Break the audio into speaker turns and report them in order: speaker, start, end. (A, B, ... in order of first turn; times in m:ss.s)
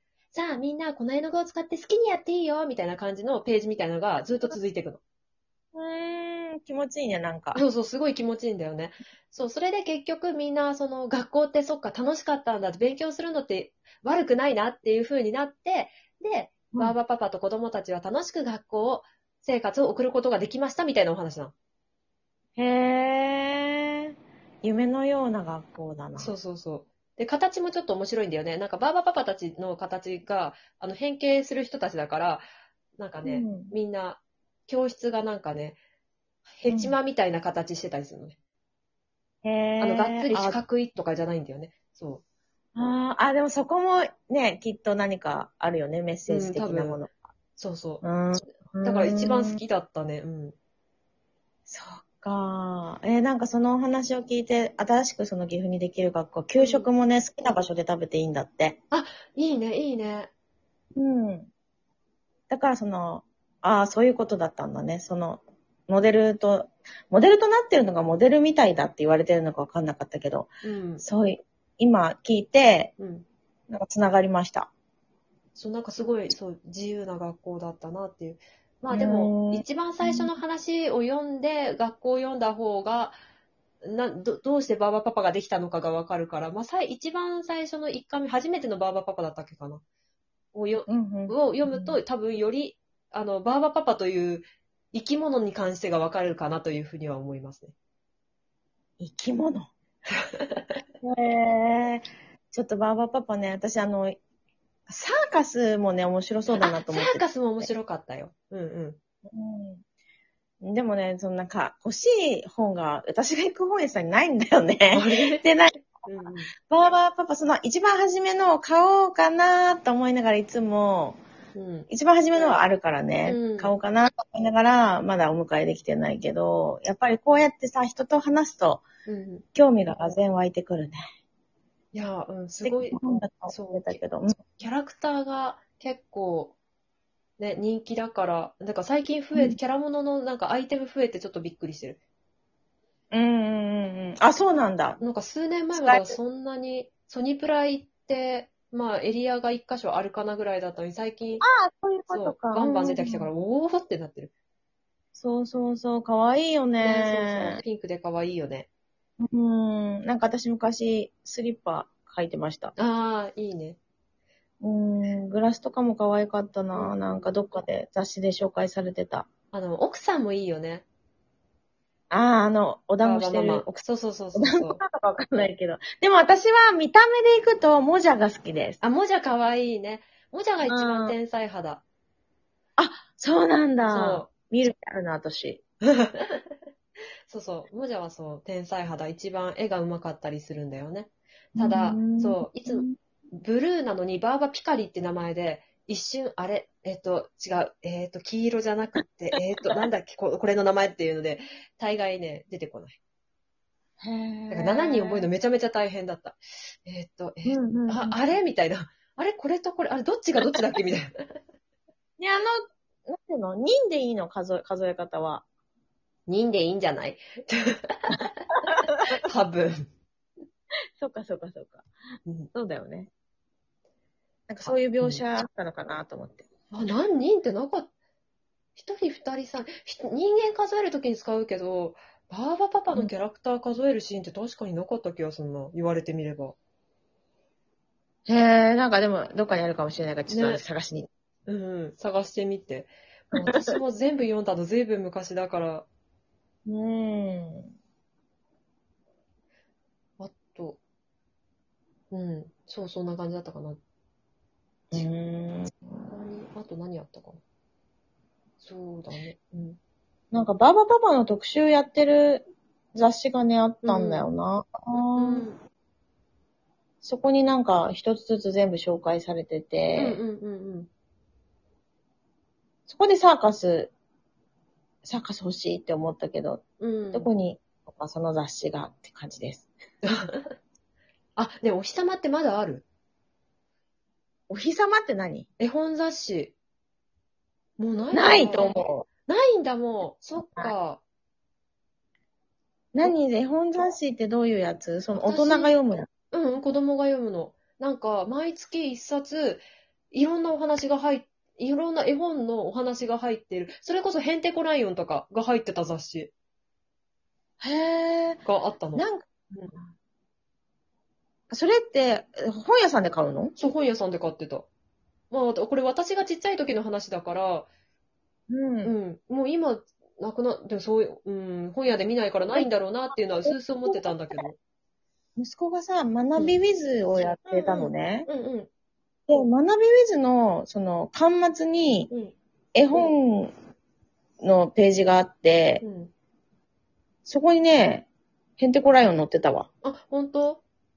0:00.3-0:05.0 A
0:04.3-0:04.6 B
0:05.8-0:07.6 B
0:07.6-0:21.5 A
0:16.7-0:17.0 B
0:22.6-0:24.1 B
0:24.6-0:26.3 B
0:26.2-0:32.4 A
0:33.0-0:35.8 A
0:33.2-0:33.8 B
0:36.5-0:38.4 A
0:36.7-0:37.0 B
0:39.4-0:40.6 B
0:39.8-0:42.2 A
0:42.8-0:47.2 B
0:46.3-0:47.0 A
0:47.6-0:50.6 A
0:48.0-0:49.6 B
0:51.7-0:58.8 B
0:56.6-0:56.9 A
0:58.9-1:00.3 A
1:01.0-1:01.5 B
1:02.5-1:10.5 B
1:10.6-1:11.0 A
1:11.0-1:12.9 B
1:13.0-1:13.3 A
1:13.7-1:14.7 B
1:15.6-1:23.2 A
1:18.9-1:20.3 B
1:23.8-1:29.8 A
1:30.5-1:37.7 A
1:30.9-1:32.0 B
1:39.0-1:39.7 B
1:40.1-1:40.7 A
1:41.0-1:44.2 B
1:44.9-1:47.7 B
1:46.6-1:49.0 A
1:49.2-1:49.8 B
1:50.6-1:56.0 B
1:54.9-1:56.5 A
1:56.7-2:01.2 B
2:01.6-2:01.9 A
2:01.9-2:08.8 B
2:03.3-2:03.7 A
2:09.1-2:09.4 A
2:09.5-2:11.0 B
2:11.9-2:13.0 A
2:12.6-2:14.5 B
2:13.5-2:14.0 A
2:14.6-2:16.6 A
2:17.4-2:22.0 A
2:23.1-2:25.0 B
2:25.0-2:31.4 A
2:25.7-2:26.2 B
2:31.4-2:33.3 B
2:32.1-2:34.3 A
2:35.2-2:37.6 B
2:36.8-2:38.7 A
2:39.2-2:42.7 B
2:42.8-2:43.8 A
2:44.6-2:49.3 B
2:46.7-2:47.3 A
2:49.5-2:50.8 A
2:52.1-2:53.8 B
2:53.0-2:54.8 A
2:54.4-2:58.8 B
2:58.8-3:01.8 A
3:00.7-3:01.2 B
3:02.8-3:05.6 B
3:03.9-3:04.3 A
3:05.9-3:06.6 A
3:07.3-3:23.0 A
3:11.6-3:12.9 B
3:24.0-3:25.3 B
3:24.5-3:31.2 A
3:27.5-3:28.2 B
3:32.2-3:35.4 B
3:36.3-3:38.4 A
3:39.2-3:39.9 A
3:41.0-3:41.9 B
3:42.5-3:43.1 B
3:44.5-3:46.5 B
3:44.6-3:45.2 A
3:46.7-3:47.9 A
3:48.8-3:56.6 A
3:58.3-4:01.1 B
4:00.3-4:00.6 A
4:01.5-4:05.9 A
4:03.3-4:03.8 B
4:06.7-4:07.7 B
4:10.2-4:10.8 A
4:12.1-4:13.8 A
4:14.9-4:16.1 B
4:16.1-4:17.4 A
4:18.6-4:19.8 A
4:20.3-4:25.4 B
4:23.8-4:24.3 A
4:25.2-4:25.6 A
4:27.0-4:30.2 B
4:30.0-4:30.9 A
4:32.9-4:33.9 B
4:35.0-4:36.6 B
4:36.8-4:37.3 A
4:37.1-4:39.7 B
4:40.0-4:40.5 A
4:41.4-4:42.8 A
4:44.5-4:45.5 B
4:45.6-4:46.6 A
4:47.8-4:51.0 A
4:48.1-4:49.1 B
4:50.4-4:50.7 B
4:52.9-4:56.1 B
4:55.2-4:55.8 A
4:56.3-5:06.3 A
5:07.6-5:08.4 B
5:08.4-5:09.7 A
5:09.0-5:09.9 B
5:11.5-5:13.6 B
5:13.6-5:14.7 A
5:15.3-5:17.7 A
5:18.5-5:19.0 B
5:18.8-5:24.6 A
5:22.5-5:24.5 B
5:25.4-5:28.3 B
5:27.5-5:28.7 A
5:29.3-5:32.1 B
5:32.1-5:32.4 A
5:32.7-5:33.5 B
5:34.4-5:35.8 B
5:35.8-5:36.1 A
5:37.3-5:38.1 B
5:38.6-5:39.7 B
5:39.8-5:40.6 A